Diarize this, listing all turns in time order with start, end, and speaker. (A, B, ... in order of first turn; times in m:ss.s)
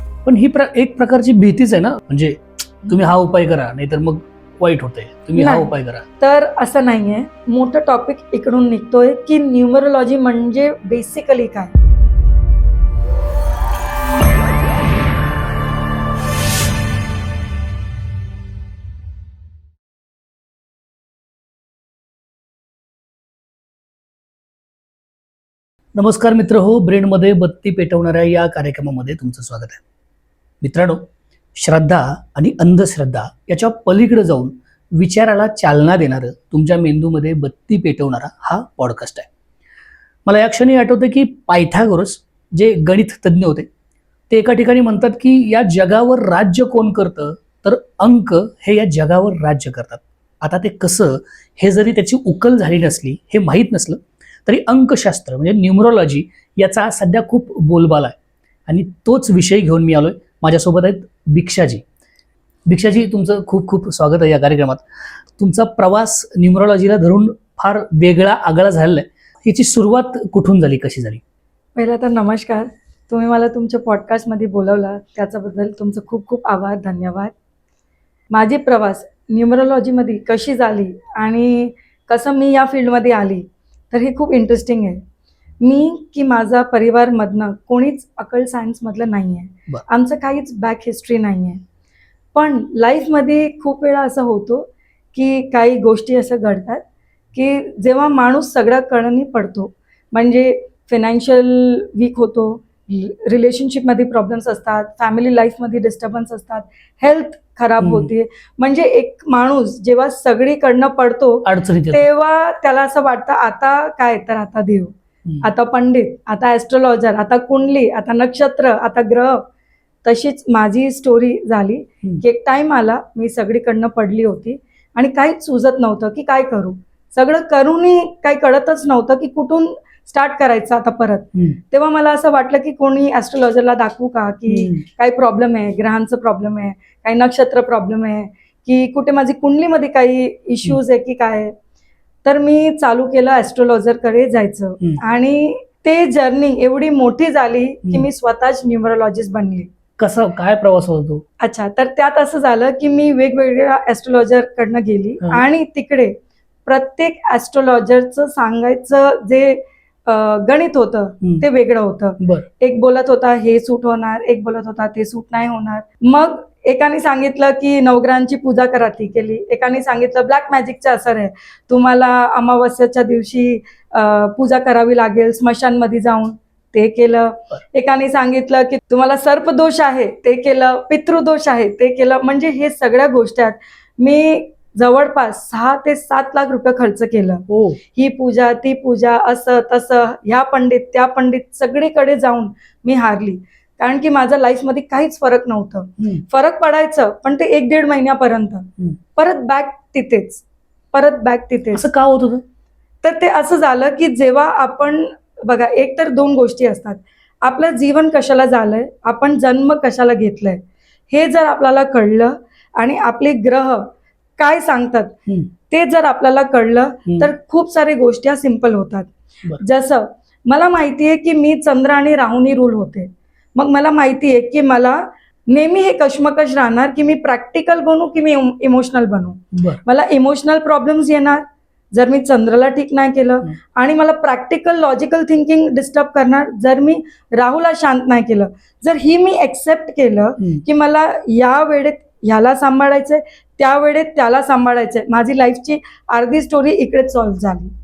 0:00.2-0:06.0 A
0:05.3-0:11.7 B
0:25.9-0:29.8 A
0:30.6-0:31.0 A
0:31.6-0:39.3 A
0:40.2-0:43.7 A
0:44.3-0:58.2 A
0:58.7-1:01.8 A
1:02.7-1:04.8 A
1:05.4-1:11.2 A
1:11.8-1:17.3 B
1:18.3-1:25.0 B
1:25.6-1:31.6 B
1:32.3-1:59.4 B
1:47.8-1:48.1 A
1:51.4-1:52.0 A
2:00.0-2:21.5 B
2:14.5-2:14.8 A
2:22.2-2:29.7 B
2:30.0-2:31.2 A
2:31.4-2:36.2 B
2:36.7-3:21.9 B
2:42.2-2:42.4 A
3:07.5-3:07.8 A
3:21.7-3:22.4 A
3:23.0-3:35.2 B
3:35.7-4:07.7 B
3:49.5-3:49.8 A